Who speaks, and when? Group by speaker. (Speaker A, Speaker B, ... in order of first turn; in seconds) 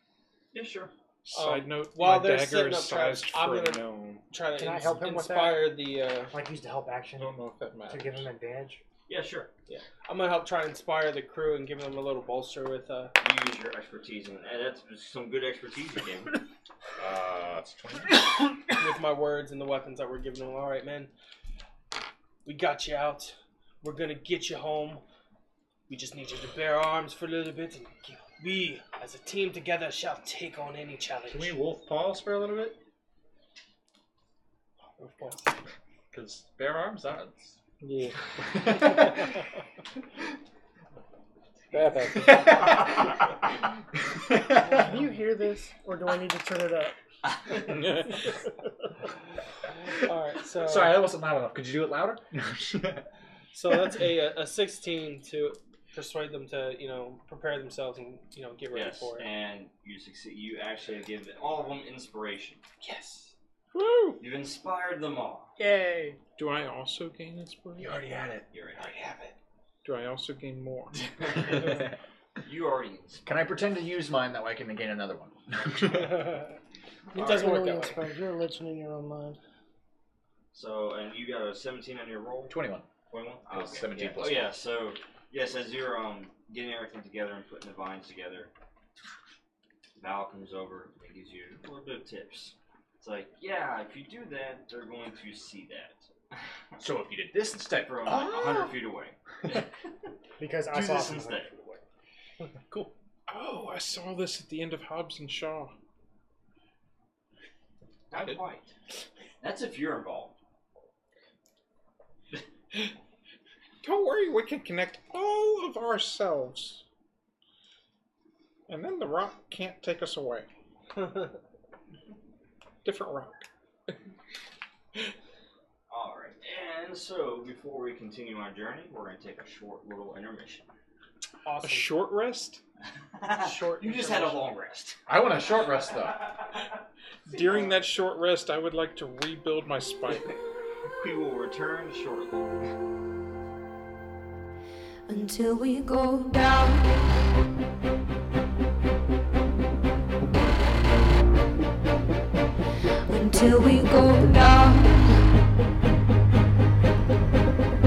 Speaker A: 0.5-0.9, 9.1-9.5, 13.2-16.4, 58.7-62.6, 64.2-65.5, 68.5-68.9, 71.0-71.9, 72.4-73.5, 77.1-77.7, 80.5-82.5, 83.1-88.5, 90.0-96.4, 97.8-99.7, 100.7-101.5, 108.1-108.7, 109.4-110.4, 125.9-130.7, 133.2-135.0, 137.3-137.8, 141.0-142.7
Speaker B: 1.3-4.2, 7.2-8.3, 37.8-38.3, 41.7-42.6, 47.6-48.3, 63.7-64.2, 66.4-68.1, 69.8-71.0, 103.3-105.7, 113.8-116.8, 118.7-120.5, 122.8-123.4, 131.6-132.6, 137.3-140.4
Speaker C: 1.3-6.3, 9.7-13.1, 18.8-21.1, 22.4-25.0, 25.9-31.6, 35.0-35.5, 50.0-51.0, 53.5-59.3, 62.8-63.3, 65.6-66.2, 68.8-69.3, 76.0-76.3, 77.2-78.0, 131.4-132.0, 133.3-134.5
Speaker D: 4.6-5.7, 6.3-7.3, 7.9-8.8, 100.4-101.8
Speaker E: 17.0-18.6, 31.3-32.8, 36.1-37.6, 38.5-39.1, 50.6-53.0, 67.8-68.5, 73.2-76.4, 82.5-82.9, 83.5-84.5, 96.8-98.5, 135.1-136.2
Speaker F: 44.7-47.0, 77.1-79.4
Speaker G: 145.1-147.0, 153.1-155.2